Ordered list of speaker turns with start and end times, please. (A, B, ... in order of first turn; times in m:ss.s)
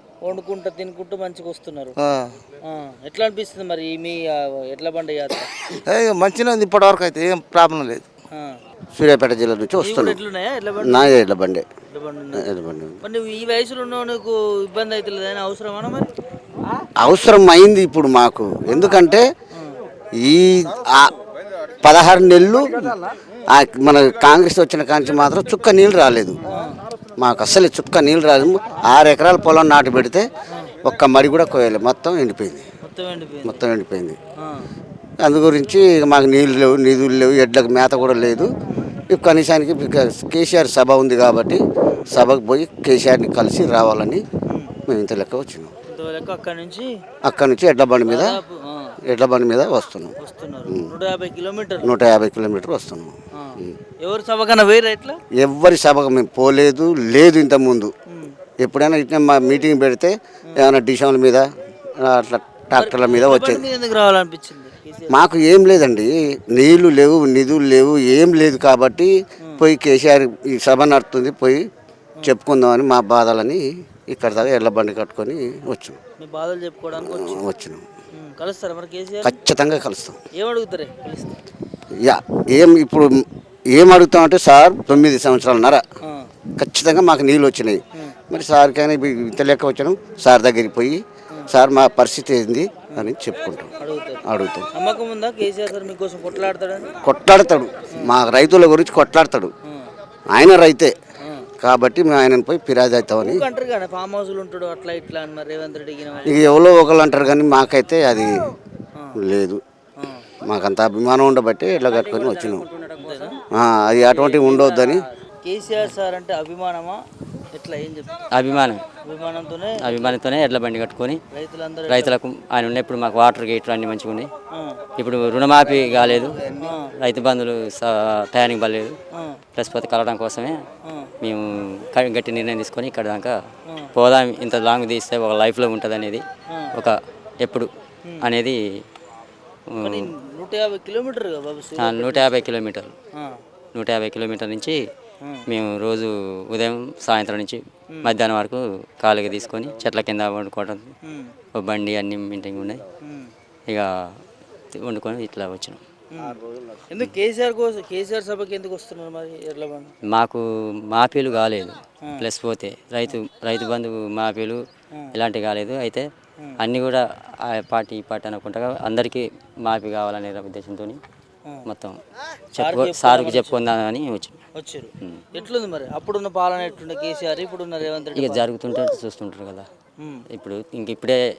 0:00.2-0:01.9 A
0:02.0-0:02.4 B
0:02.6-0:05.5 A
0:05.8-0:08.0 B
0:09.0-0:10.2 C
0:09.8-0:11.1 A
0:10.8-0:11.6 C
0:11.9-0:12.4 A
0:12.3-0:13.0 C
0:13.0-0:16.1 A
0:17.0-0:19.3 C
0:20.2-0:21.2 C
0:21.8-0:23.0 C
0:23.5-0:26.4 C
0:26.4-0:26.8 A
0:27.2-0:30.2 C
0:30.8-0:32.6 C
0:32.8-0:33.6 A
0:33.4-0:34.2 C
0:34.4-0:34.7 A
0:35.2-0:38.5 C
0:38.7-0:39.0 A
0:39.1-0:44.2 C
0:41.8-0:42.1 A
0:44.5-0:44.7 A
0:44.9-0:45.7 C
0:45.9-0:46.9 A
0:47.2-0:48.4 C
0:48.0-0:48.9 A
0:49.1-0:50.1 C
0:50.2-0:51.9 A
0:50.7-0:50.9 C
0:51.8-0:53.8 C
0:53.3-0:55.2 A
0:55.4-0:57.9 C
0:58.6-1:01.5 C
1:02.0-1:03.6 C
1:02.8-1:05.2 A
1:05.1-1:11.6 C
1:12.2-1:16.0 C
1:16.2-1:17.4 A
1:17.0-1:17.8 C
1:18.1-1:19.4 A
1:19.2-1:20.2 C
1:20.3-1:21.4 A
1:21.9-1:25.8 C
1:26.0-1:26.3 A
1:26.6-1:33.7 C
1:33.8-1:37.0 A
1:34.2-1:34.7 C
1:37.0-1:39.5 C
1:40.3-1:40.9 C
1:41.6-1:43.4 C
1:43.2-1:46.6 A
1:46.2-1:48.5 C
1:49.2-1:49.6 C
1:50.0-1:50.2 A
1:50.4-1:52.7 C
1:53.0-1:53.4 A
1:53.5-1:55.0 C
1:54.1-1:57.0 A
1:57.5-1:58.2 A
1:58.4-1:58.8 D
1:59.1-2:00.2 A
1:59.8-2:01.2 D
2:01.3-2:02.1 A
2:01.9-2:04.3 D
2:04.5-2:04.8 A
2:05.0-2:06.4 D
2:05.6-2:06.6 B
2:06.6-2:06.9 A
2:07.0-2:09.0 D
2:09.1-2:09.4 A
2:09.6-2:10.6 D
2:10.8-2:11.1 A
2:11.9-2:13.3 D
2:14.0-2:16.2 D
2:16.8-2:17.7 D
2:18.2-2:18.5 D
2:19.8-2:22.5 A
2:21.8-2:22.9 D
2:23.1-2:23.4 A
2:23.8-2:24.8 D
2:25.5-2:27.6 D
2:27.9-2:28.2 A
2:28.2-2:30.8 D
2:31.0-2:31.3 A
2:31.6-2:32.8 D
2:33.0-2:33.3 A
2:34.8-2:35.8 D
2:36.1-2:39.9 A
2:40.1-2:40.4 D
2:40.9-2:44.6 D
2:42.0-2:42.3 A
2:45.2-2:46.0 D
2:46.6-2:47.0 D
2:47.6-2:51.0 D
2:52.6-2:53.6 A
2:52.6-2:54.4 D
2:54.6-2:58.4 A
2:58.2-2:59.6 D
3:00.3-3:01.2 D